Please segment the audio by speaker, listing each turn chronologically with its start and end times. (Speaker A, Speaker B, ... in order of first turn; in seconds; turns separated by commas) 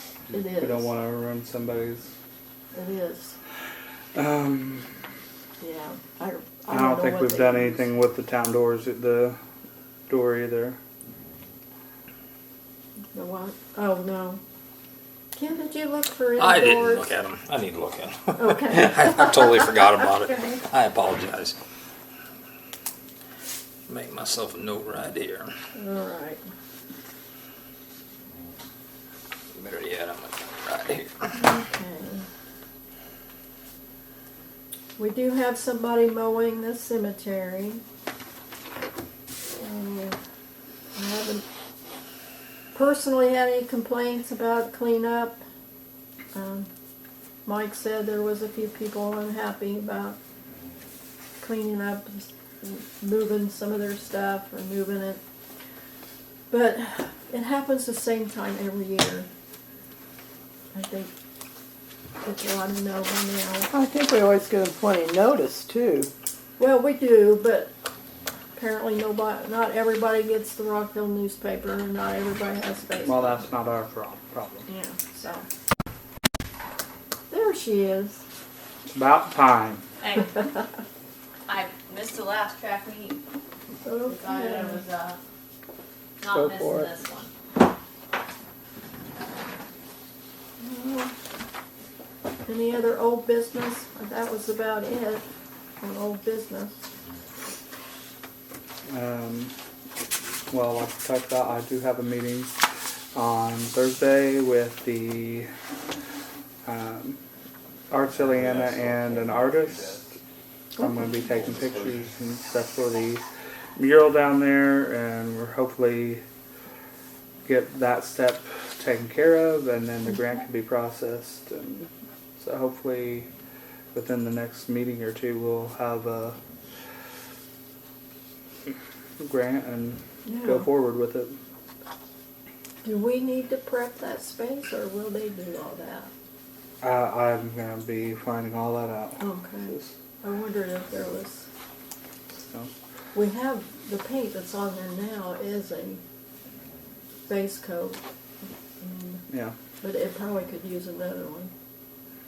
Speaker A: 0.3-0.9, Speaker B: 0.6-2.1, Speaker A: 2.7-3.4, Speaker B: 4.2-4.9, Speaker A: 5.6-7.9, Speaker B: 6.7-9.4, Speaker B: 10.1-10.8, Speaker A: 13.1-14.4, Speaker A: 15.3-17.1, Speaker C: 16.4-21.6, Speaker A: 18.4-19.4, Speaker C: 23.9-25.5, Speaker A: 25.8-26.4, Speaker C: 29.5-31.1, Speaker A: 31.3-32.3, Speaker A: 35.0-37.8, Speaker A: 39.6-40.2, Speaker A: 41.0-41.5, Speaker A: 42.7-45.4, Speaker A: 46.3-46.7, Speaker A: 47.5-50.2, Speaker A: 51.4-55.2, Speaker A: 56.5-59.3, Speaker A: 60.7-61.1, Speaker A: 62.2-63.7, Speaker D: 63.7-66.1, Speaker A: 66.6-67.7, Speaker A: 68.6-73.5, Speaker B: 73.0-74.7, Speaker A: 74.7-75.5, Speaker A: 77.3-78.2, Speaker B: 78.9-79.8, Speaker E: 80.0-80.3, Speaker E: 81.5-83.2, Speaker A: 83.8-84.8, Speaker E: 84.1-85.2, Speaker E: 86.2-87.3, Speaker D: 86.3-86.9, Speaker A: 90.6-91.1, Speaker A: 92.5-95.2, Speaker A: 95.8-96.8, Speaker B: 98.9-99.5, Speaker B: 100.5-102.6, Speaker B: 103.2-105.5, Speaker B: 106.7-107.2, Speaker B: 107.9-110.2, Speaker C: 108.3-109.1, Speaker A: 110.8-111.4, Speaker B: 110.8-116.2, Speaker C: 111.5-112.0, Speaker B: 117.5-123.3, Speaker B: 123.9-126.4, Speaker B: 129.2-131.4, Speaker A: 130.2-130.7, Speaker A: 132.8-136.1, Speaker B: 136.8-139.9, Speaker A: 139.2-141.5, Speaker A: 143.1-146.0, Speaker A: 147.3-148.0, Speaker A: 148.8-149.2, Speaker B: 149.3-149.6, Speaker A: 149.8-151.5